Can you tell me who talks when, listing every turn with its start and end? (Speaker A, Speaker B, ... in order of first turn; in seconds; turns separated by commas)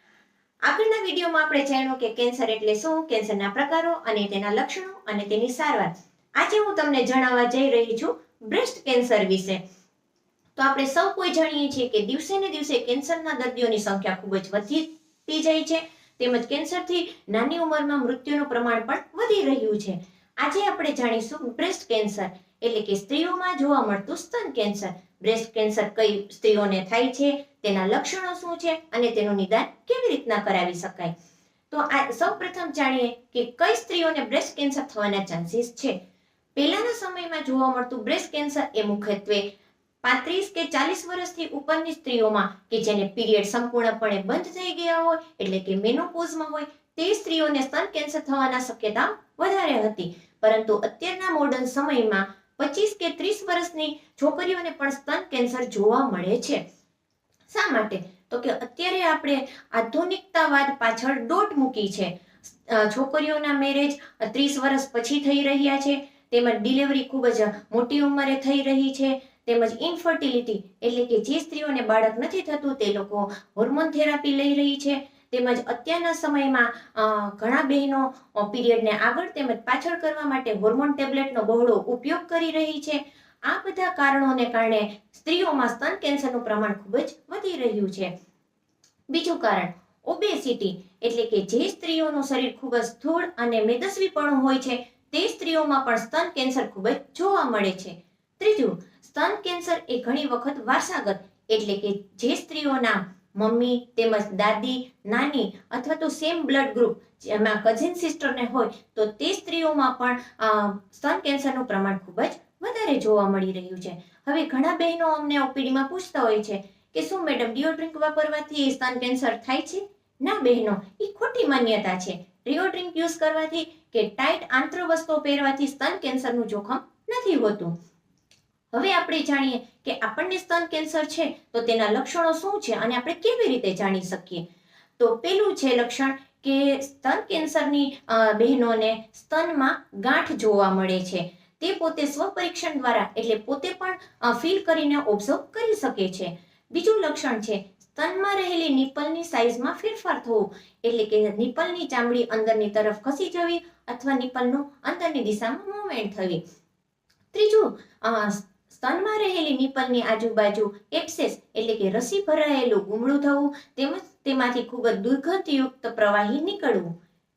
Speaker A: 0.6-9.6, Speaker A: 10.6-31.1, Speaker A: 31.7-36.0, Speaker A: 36.5-39.5, Speaker A: 40.0-56.6, Speaker A: 57.5-88.1, Speaker A: 89.1-127.7, Speaker A: 128.7-134.4, Speaker A: 135.0-156.4, Speaker A: 157.3-166.9